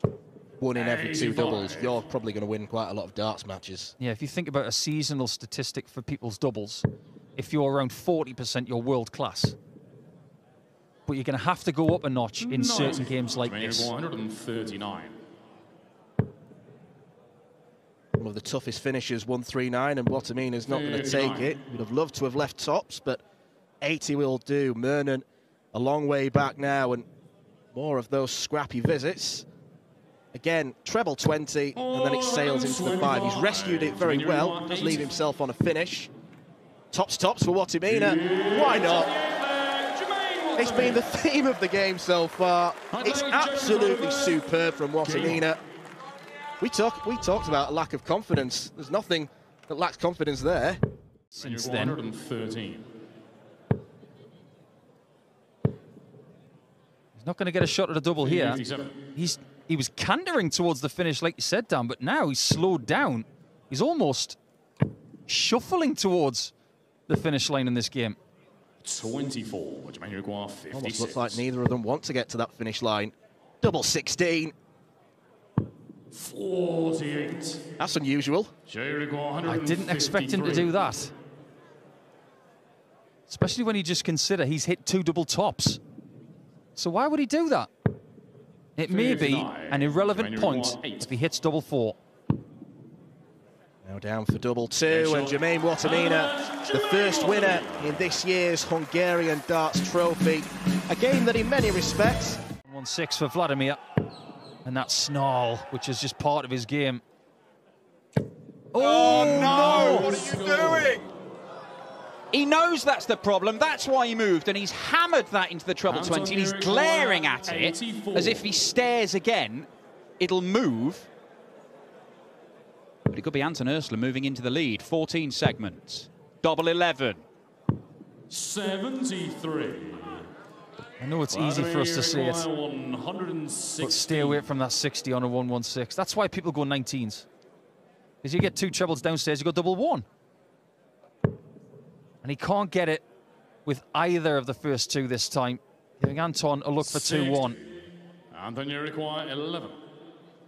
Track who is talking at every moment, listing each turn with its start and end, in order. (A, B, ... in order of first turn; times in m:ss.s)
0:00.6-0:03.9 A
0:00.7-0:02.0 B
0:04.0-0:09.6 C
0:11.1-0:13.9 C
0:12.4-0:15.2 B
0:18.2-0:23.2 A
0:20.6-0:21.6 B
0:23.8-0:27.0 A
0:27.7-0:29.4 A
0:30.3-0:36.1 A
0:31.7-0:35.1 B
0:36.9-0:39.1 A
0:37.8-0:41.0 B
0:40.6-0:45.6 A
0:42.9-0:44.4 B
0:45.0-0:45.4 B
0:46.6-0:50.8 A
0:51.4-0:52.0 C
0:51.4-0:52.9 B
0:57.2-0:58.6 C
0:58.2-0:59.0 B
0:59.1-1:04.4 C
1:05.3-1:06.5 C
1:07.1-1:08.2 C
1:08.8-1:11.4 B
1:10.7-1:14.5 A
1:16.1-1:17.6 B
1:17.8-1:18.5 A
1:18.7-1:20.7 B
1:19.4-1:21.1 C
1:23.3-1:25.8 C
1:26.8-1:27.7 C
1:28.8-1:32.0 C
1:28.8-1:31.1 B
1:33.8-1:42.4 A
1:34.9-1:38.0 B
1:42.6-1:43.8 C
1:44.6-1:47.0 C
1:48.7-1:50.1 C
1:48.7-1:51.0 D
1:49.1-1:51.1 B
1:52.3-1:59.7 D
1:55.8-1:58.4 B
2:00.2-2:01.1 D
2:03.1-2:07.2 D
2:08.3-2:10.3 B
2:11.0-2:12.5 C
2:11.3-2:14.4 B
2:13.8-2:17.3 C
2:18.2-2:20.0 C
2:22.2-2:23.0 C
2:23.6-2:27.6 C
2:26.8-2:27.6 B
2:28.3-2:29.8 B